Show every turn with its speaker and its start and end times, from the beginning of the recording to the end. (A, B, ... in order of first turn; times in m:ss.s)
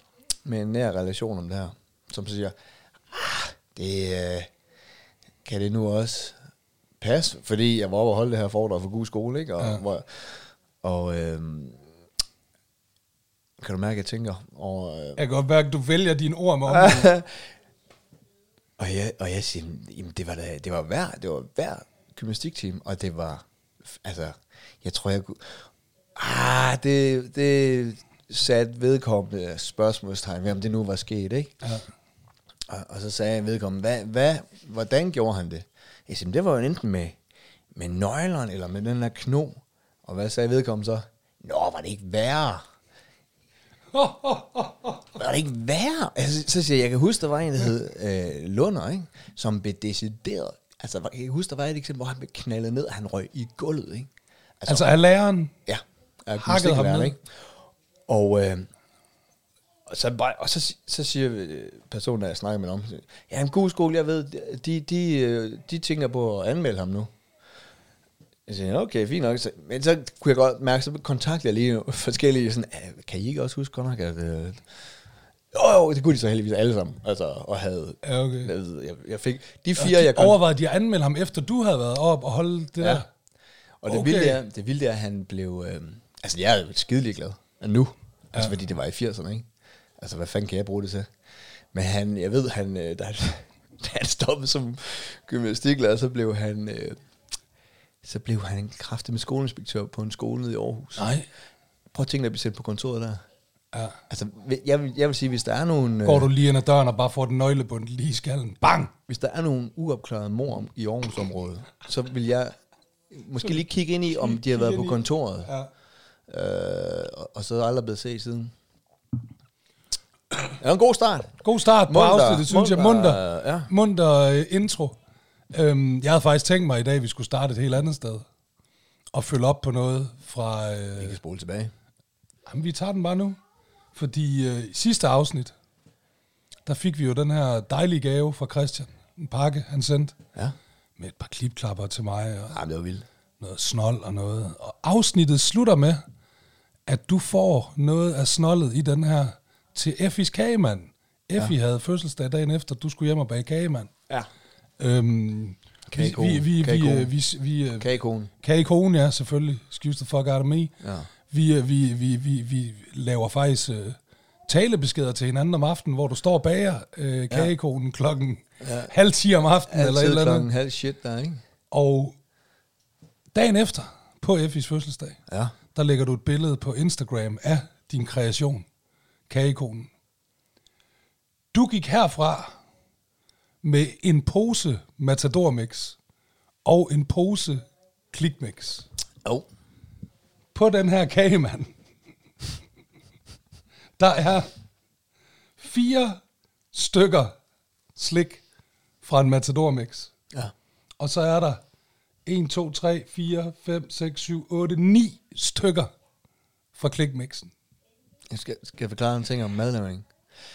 0:00.4-0:02.5 A
0:03.1-0:04.5 A
0:05.4-0:06.4 A
0:07.0-0:11.8 A
0:13.6-0:15.2 A
0:15.2-0:17.1 B
0:16.7-0:17.5 A
0:18.8-0:31.5 A
0:32.7-0:37.2 A
0:37.8-0:42.6 A
0:43.9-0:45.0 B
0:45.2-0:54.1 A
0:54.6-0:54.9 A
0:54.7-0:55.5 B
0:55.7-0:57.2 A
0:56.4-0:57.1 B
0:58.1-0:58.7 A
0:59.9-1:07.1 A
1:08.5-1:14.6 A
1:15.5-1:20.4 A
1:18.0-1:18.5 B
1:19.8-1:23.1 B
1:23.8-1:29.5 A
1:23.9-1:24.4 B
1:30.0-1:31.1 A
1:31.7-1:37.0 A
1:38.0-1:41.1 A
1:41.0-1:41.3 B
1:41.9-1:43.2 A
1:44.1-1:46.3 A
1:46.0-1:48.9 B
1:49.1-1:52.5 A
1:53.1-1:55.5 A
1:54.1-1:55.7 B
1:56.3-1:58.5 A
2:00.6-2:03.7 A
2:01.4-2:05.0 B
2:05.5-2:08.2 B
2:09.1-2:11.2 B
2:11.0-2:11.7 A
2:12.5-2:13.4 B
2:13.9-2:15.5 B
2:16.7-2:20.2 B
2:21.0-2:22.6 B
2:22.5-2:23.0 A
2:23.4-2:26.0 B
2:26.9-2:33.9 B
2:34.8-2:37.9 B
2:35.9-2:37.1 A
2:37.8-2:38.3 A
2:38.4-2:40.7 B
2:40.8-2:41.1 A
2:41.3-2:50.5 B
2:48.6-2:48.9 A
2:49.7-2:51.4 A
2:51.7-2:52.2 B
2:53.3-2:55.2 B
2:55.3-2:55.6 A
2:55.7-2:58.6 B
2:59.3-2:59.9 B
3:01.5-3:02.5 B
3:03.6-3:06.0 B
3:06.6-3:07.6 B
3:08.1-3:08.9 B
3:10.5-3:11.7 B
3:14.0-3:14.5 B
3:15.6-3:16.2 B
3:16.7-3:17.4 B
3:18.0-3:18.4 B
3:19.0-3:20.1 B
3:21.0-3:21.6 B
3:22.3-3:25.9 B
3:26.8-3:27.5 B
3:28.3-3:30.1 A